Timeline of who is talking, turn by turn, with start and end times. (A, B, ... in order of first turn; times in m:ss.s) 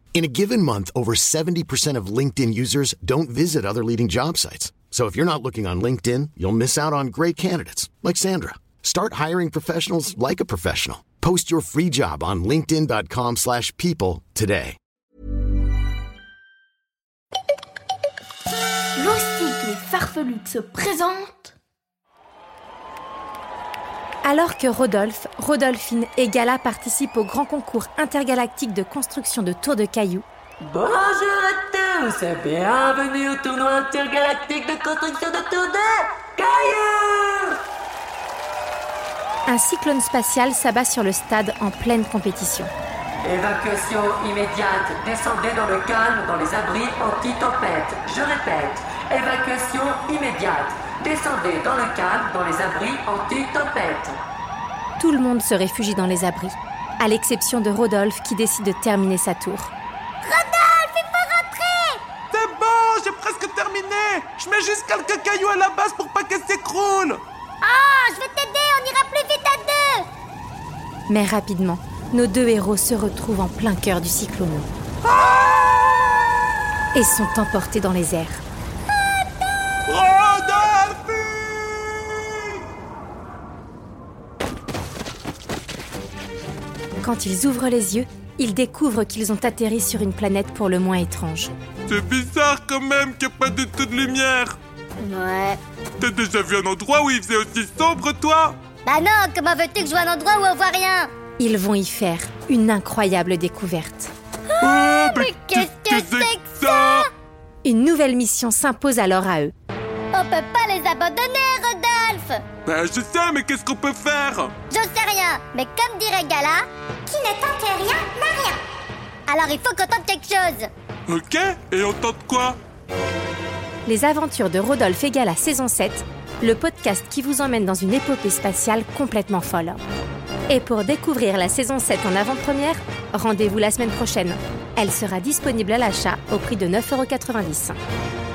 0:00.1-0:14.8 A
0:19.0-0:21.5 B
0:24.2-0:30.2 C
0:30.6-0:37.6 D
0:39.5-0:42.7 C
0:43.2-0:54.2 D
0:55.0-0:59.7 C
1:00.2-1:02.0 E
1:02.3-1:07.2 F
1:07.6-1:10.1 E
1:11.1-1:14.7 C
1:15.1-1:15.8 F
1:16.9-1:18.4 C
1:19.8-1:22.6 F
1:27.0-1:31.5 C
1:31.9-1:34.6 F
1:35.0-1:35.6 E
1:36.0-1:38.6 F
1:38.8-1:41.1 E
1:41.4-1:44.1 C
1:44.5-1:47.1 E
1:44.6-1:47.1 F
1:47.6-1:49.5 C
1:50.1-1:52.4 E
1:52.6-1:54.5 F
1:54.7-1:58.6 E
1:59.3-2:00.7 E
2:01.1-2:02.6 F
2:03.8-2:09.8 C
2:10.5-2:17.8 C